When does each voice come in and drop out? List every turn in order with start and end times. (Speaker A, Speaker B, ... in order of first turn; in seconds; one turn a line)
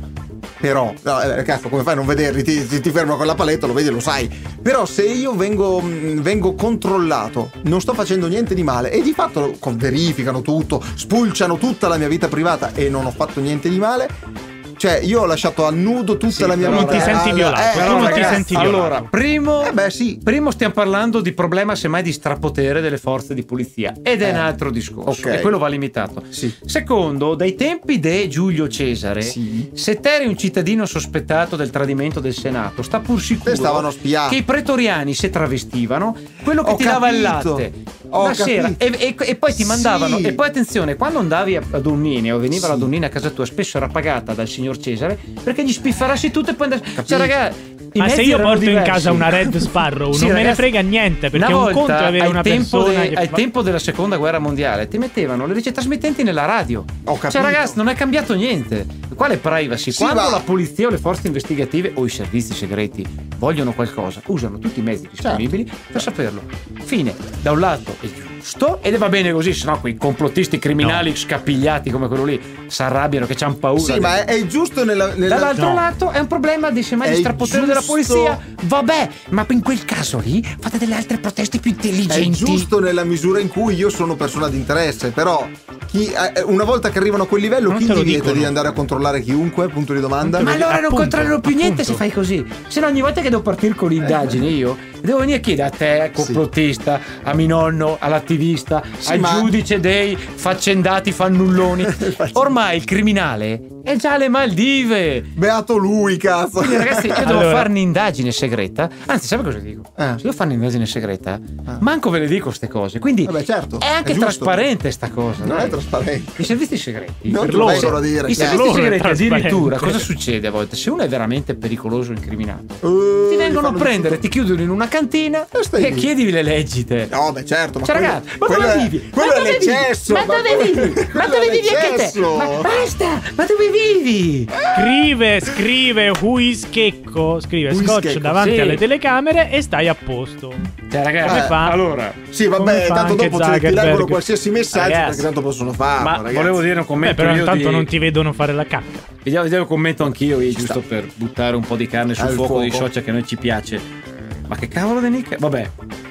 Speaker A: 0.6-14.1
Speaker A: 14.8-18.7
Speaker B: 16.3-50.8
Speaker C: 16.7-19.1
Speaker A: 19.6-20.2
Speaker A: 24.2-24.5
Speaker A: 25.1-25.6
Speaker A: 29.2-29.7
Speaker A: 33.4-34.4
Speaker A: 36.6-38.8
Speaker A: 39.5-40.4
Speaker A: 42.5-42.9
Speaker A: 47.0-47.4
Speaker C: 48.0-53.4
Speaker B: 51.3-74.2
Speaker A: 57.1-57.8
Speaker A: 59.9-60.5
Speaker A: 65.2-66.1
Speaker C: 70.8-71.0
Speaker A: 73.8-75.8
Speaker B: 75.3-82.7
Speaker A: 77.0-78.4
Speaker A: 82.1-90.6
Speaker C: 87.7-88.5
Speaker C: 90.2-92.0
Speaker B: 90.4-105.3
Speaker A: 94.0-94.4
Speaker A: 96.2-96.4
Speaker A: 99.0-99.5
Speaker A: 101.8-102.6
Speaker A: 105.4-107.5
Speaker B: 106.6-115.8
Speaker C: 107.2-107.7
Speaker A: 110.0-110.2
Speaker A: 113.2-114.7
Speaker A: 115.4-116.5
Speaker B: 116.4-127.1
Speaker A: 117.3-118.7
Speaker C: 117.4-120.1
Speaker A: 122.8-124.2
Speaker A: 125.5-126.1
Speaker A: 127.1-132.7
Speaker B: 127.8-134.5
Speaker A: 134.5-135.6
Speaker C: 134.7-140.6
Speaker A: 137.7-138.4
Speaker B: 138.4-138.8
Speaker B: 140.9-142.2
Speaker C: 141.2-141.8
Speaker A: 141.2-141.6
Speaker A: 142.3-146.7
Speaker C: 142.5-144.3
Speaker B: 144.7-145.3
Speaker B: 146.0-147.9
Speaker C: 147.0-149.1
Speaker B: 149.2-153.9
Speaker A: 150.5-150.8
Speaker A: 152.2-152.9
Speaker B: 154.5-155.7